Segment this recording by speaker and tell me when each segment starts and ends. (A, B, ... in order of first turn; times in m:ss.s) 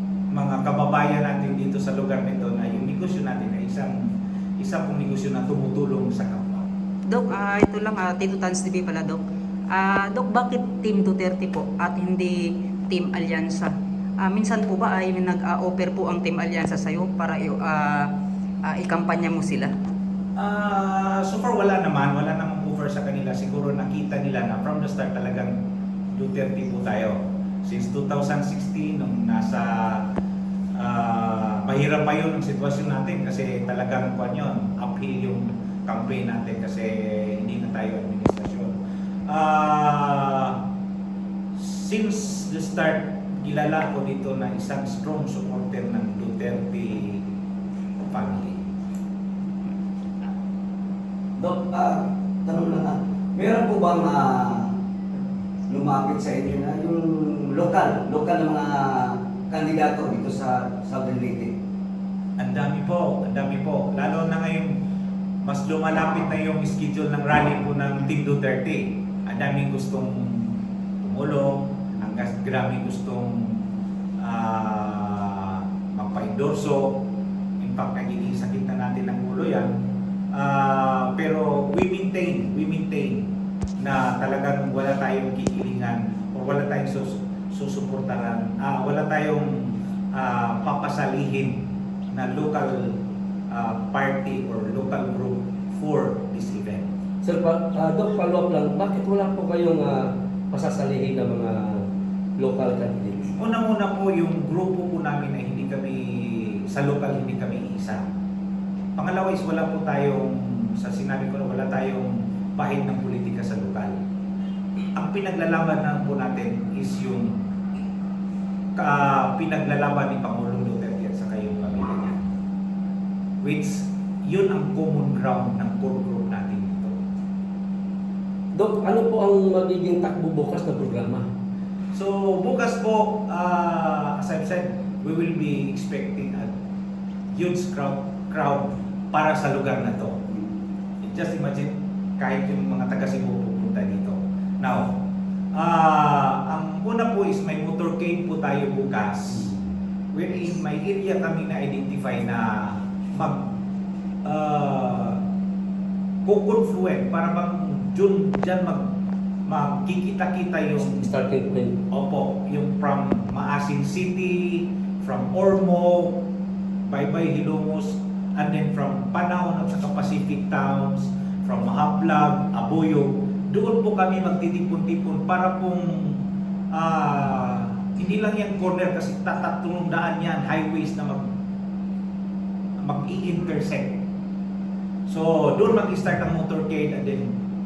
0:00.3-0:03.9 A
0:04.6-0:06.7 A
0:07.1-0:09.2 B
0:09.7-0:18.0 B
0:18.7-0:19.7 B
0:20.4-0:25.5 A
0:26.1-0:30.0 A
0:30.8-0:38.7 A
0:39.3-0:40.6 A
0:41.6-0:47.2 A
0:48.0-0:48.6 A
0:51.4-0:54.7 C
0:55.7-1:01.5 C
1:02.4-1:04.7 A
1:05.4-1:10.3 A
1:11.0-1:13.4 A
1:14.2-1:16.9 A
1:17.6-1:19.7 A
1:20.4-1:23.2 A
1:23.8-1:29.5 A
1:30.1-1:31.6 A
1:32.1-1:32.9 A
1:33.5-1:36.9 A
1:37.2-1:41.8 D
1:42.4-1:43.3 D
1:43.4-1:48.0 A
1:49.0-1:54.0 A
1:55.0-1:57.3 A
1:58.8-2:02.3 A
2:03.4-2:06.9 A
2:08.5-2:11.3 D
2:11.9-2:16.5 A
2:17.4-2:20.2 A
2:21.0-2:24.9 A
2:25.6-2:29.5 A
2:30.1-2:33.4 A
2:34.3-2:35.2 A
2:36.3-2:38.8 A
2:39.5-2:41.1 A
2:40.8-2:41.7 D
2:41.9-2:46.2 A
2:46.9-2:56.2 A
2:56.7-3:01.2 A
3:02.8-3:03.9 A
3:05.1-3:07.3 A